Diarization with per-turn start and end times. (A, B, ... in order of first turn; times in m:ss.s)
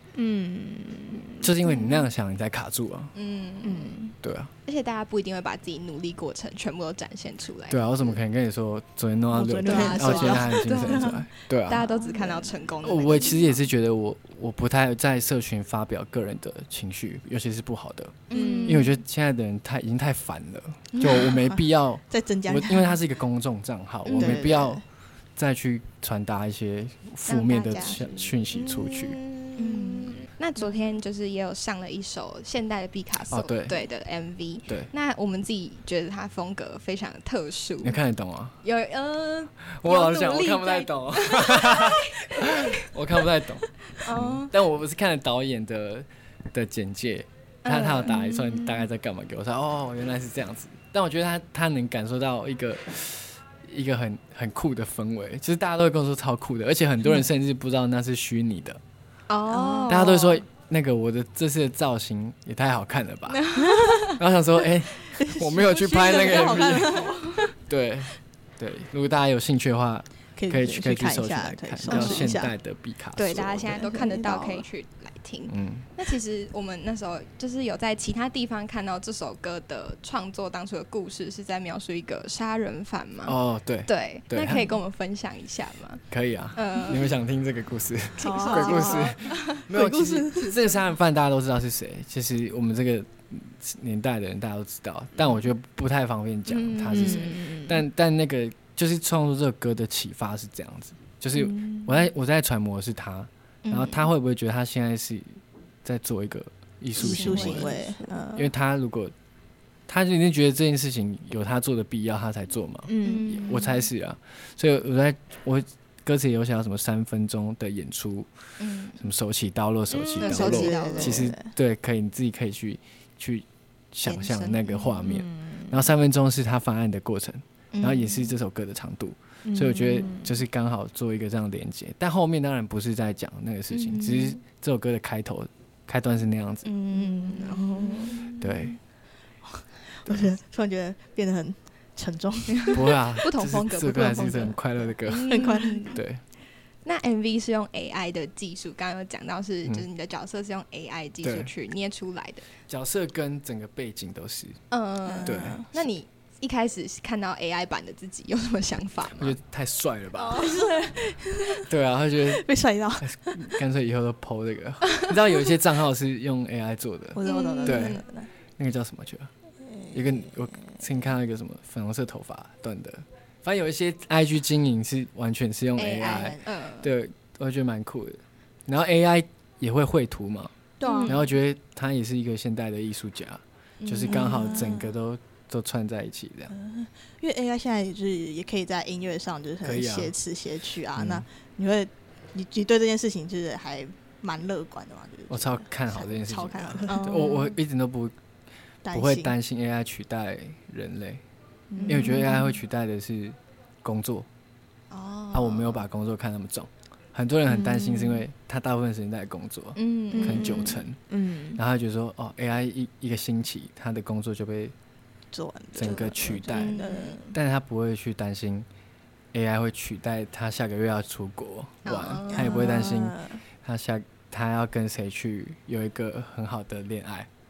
0:00.1-0:01.9 A
0:01.4-0:03.1 B
0:03.1-0:04.0 C
0:03.6-0:04.1 A
0:04.2-0:04.5 B
0:04.6-0:08.2 C
0:07.7-0:11.9 B
0:09.3-0:13.4 A
0:09.6-0:13.6 C
0:12.8-0:24.8 B
0:18.3-0:19.0 C
0:18.3-0:18.9 A
0:21.0-0:21.2 C
0:21.2-0:23.0 A
0:24.1-0:24.5 C
0:24.1-0:24.8 A
0:25.4-0:29.2 B
0:27.3-0:28.1 C
0:27.8-0:30.7 A
0:29.6-0:38.0 C
0:33.3-0:33.7 B
0:37.8-0:38.6 B
0:38.6-0:42.9 C
0:39.8-0:58.8 B
0:44.0-0:44.5 C
0:47.6-0:48.8 C
0:59.3-1:00.4 C
0:59.5-0:59.9 A
0:59.9-1:03.4 B
1:03.3-1:04.2 C
1:04.1-1:07.1 B
1:05.2-1:07.5 A
1:05.9-1:07.5 C
1:07.6-1:13.9 B
1:10.4-1:12.5 A
1:11.9-1:12.4 C
1:13.1-1:26.0 C
1:13.4-1:14.6 A
1:15.5-1:15.9 B
1:23.2-1:24.7 B
1:26.1-1:47.7 B
1:26.5-1:27.1 C
1:28.2-1:29.6 C
1:28.2-1:30.6 A
1:36.5-1:37.6 C
1:36.9-1:37.8 A
1:41.4-1:42.0 A
1:43.6-1:44.1 C
1:47.0-1:48.2 C
1:47.0-1:48.5 A
1:48.4-1:49.1 B
1:49.9-1:58.3 B
1:52.9-1:53.3 A
1:53.0-1:53.8 C
1:58.6-1:59.0 C
1:59.0-2:16.7 B
1:59.9-2:01.5 A
2:00.2-2:01.3 C
2:04.0-2:05.0 C
2:05.0-2:05.8 A
2:07.7-2:08.3 C
2:09.4-2:10.4 A
2:13.7-2:14.4 C
2:16.6-2:18.4 C
2:16.9-2:18.7 A
2:18.4-2:18.8 B
2:19.4-2:23.0 A
2:20.0-2:20.3 B
2:22.5-2:26.0 C
2:22.7-2:26.2 B
2:25.2-2:26.0 A
2:26.8-2:32.5 C
2:31.2-2:31.5 B
2:32.7-2:34.6 B
2:34.7-2:39.4 C
2:35.0-2:35.7 A
2:35.2-2:35.9 B
2:39.2-2:40.5 B
2:40.2-2:41.7 A
2:41.7-2:42.4 B
2:42.2-2:43.4 A
2:43.0-2:48.0 B
2:47.1-2:48.3 A
2:47.2-2:48.0 C
2:48.6-2:49.3 B
2:49.6-2:50.3 A
2:49.9-3:06.5 B
2:55.8-2:56.9 C
2:56.1-2:56.4 A
3:00.8-3:01.2 A
3:00.8-3:01.2 C
3:03.8-3:04.6 C
3:04.0-3:04.9 A
3:06.5-3:17.3 A
3:09.6-3:10.2 B
3:11.0-3:11.2 B
3:15.3-3:18.1 B
3:16.9-3:17.6 C
3:18.8-3:19.3 A
3:18.9-3:21.2 B
3:21.7-3:22.5 A
3:21.8-3:22.3 C
3:21.9-3:24.3 B
3:24.9-3:25.8 C
3:25.3-3:31.0 B
3:27.5-3:28.2 C
3:29.7-3:30.8 C
3:30.1-3:31.6 A
3:31.6-3:34.7 B
3:35.3-3:37.4 A
3:35.7-3:38.7 B
3:35.8-3:37.2 C
3:39.3-3:47.3 B
3:41.8-3:42.8 C
3:42.3-3:43.4 A